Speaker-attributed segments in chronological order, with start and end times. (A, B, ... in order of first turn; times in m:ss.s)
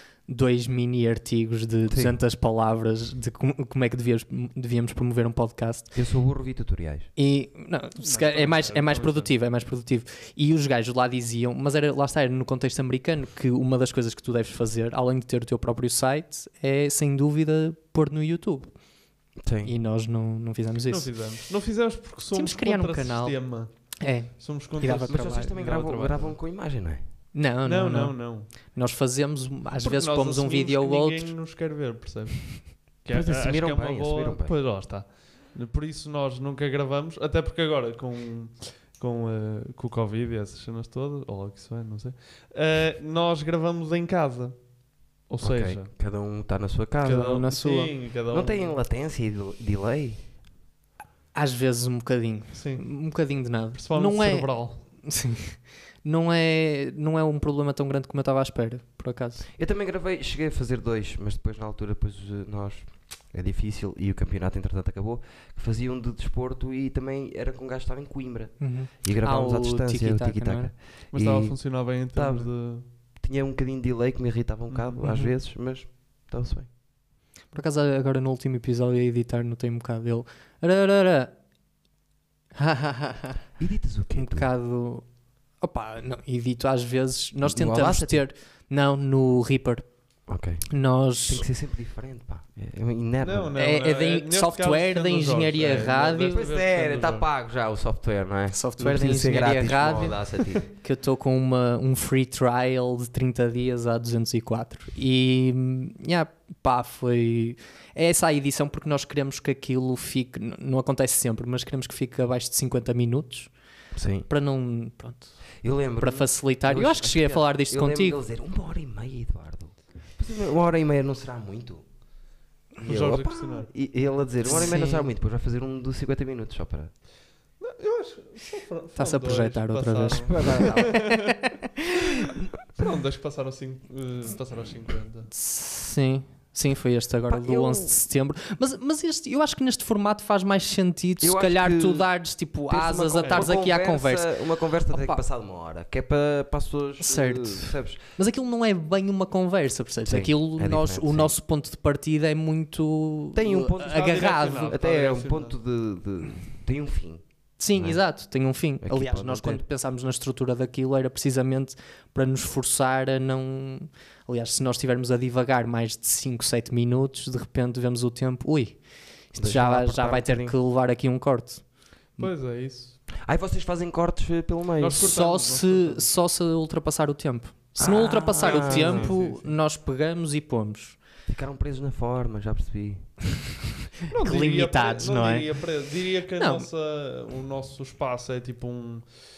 0:00.2-0:05.9 A
0:01.9-0:02.2 B
0:05.9-0:07.1 B
0:07.2-0:18.7 A
0:08.0-0:09.3 C
0:19.4-0:19.7 B
0:19.6-0:21.1 A
0:20.9-0:26.4 C
0:22.3-0:25.6 A
0:25.1-0:27.0 B
0:27.3-0:31.3 A
0:27.6-0:28.5 C
0:29.8-0:44.7 C
0:33.1-0:34.6 B
0:45.3-0:45.9 C
0:45.4-0:47.4 B
0:47.0-0:48.8 C
0:47.0-0:47.9 A
0:48.3-0:50.2 B
0:51.3-0:59.4 A
0:52.5-0:54.8 C
0:59.6-1:16.7 B
1:08.6-1:10.7 A
1:11.1-1:12.8 C
1:14.7-1:15.0 C
1:15.0-1:15.3 A
1:17.5-1:21.3 A
1:22.6-1:23.4 A
1:23.6-1:24.5 B
1:24.1-1:25.1 A
1:25.6-1:30.1 A
1:27.4-1:28.2 B
1:30.3-1:30.7 B
1:30.7-1:31.5 A
1:31.2-1:33.5 B
1:33.2-1:37.3 C
1:33.6-1:36.4 A
1:36.3-1:40.6 B
1:38.5-1:53.5 A
1:53.9-1:54.3 B
1:54.3-1:55.4 A
1:55.6-2:01.8 B
1:56.0-1:58.2 A
2:02.8-2:06.9 B
2:02.8-2:03.7 C
2:04.4-2:05.1 A
2:07.6-2:11.4 C
2:09.0-2:12.5 A
2:10.3-2:11.0 B
2:12.2-2:15.3 C
2:15.3-2:24.3 A
2:17.3-2:17.9 B
2:21.2-2:22.1 B
2:22.7-2:28.0 B
2:23.2-2:23.5 C
2:24.9-2:25.2 A
2:27.0-2:34.8 A
2:30.0-2:31.3 B
2:33.3-2:37.2 B
2:33.8-2:35.6 C
2:37.6-2:48.8 A
2:37.8-2:38.0 B
2:38.8-2:39.6 B
2:49.3-2:51.6 A
2:49.3-2:50.6 B
2:52.2-2:53.0 C
2:53.2-2:55.1 B
2:54.8-2:56.1 C
2:55.0-3:01.0 A
2:57.8-2:59.1 B
2:58.4-2:59.5 C
3:01.3-3:03.1 B
3:04.1-3:09.1 C
3:04.2-3:05.5 A
3:06.4-3:06.7 A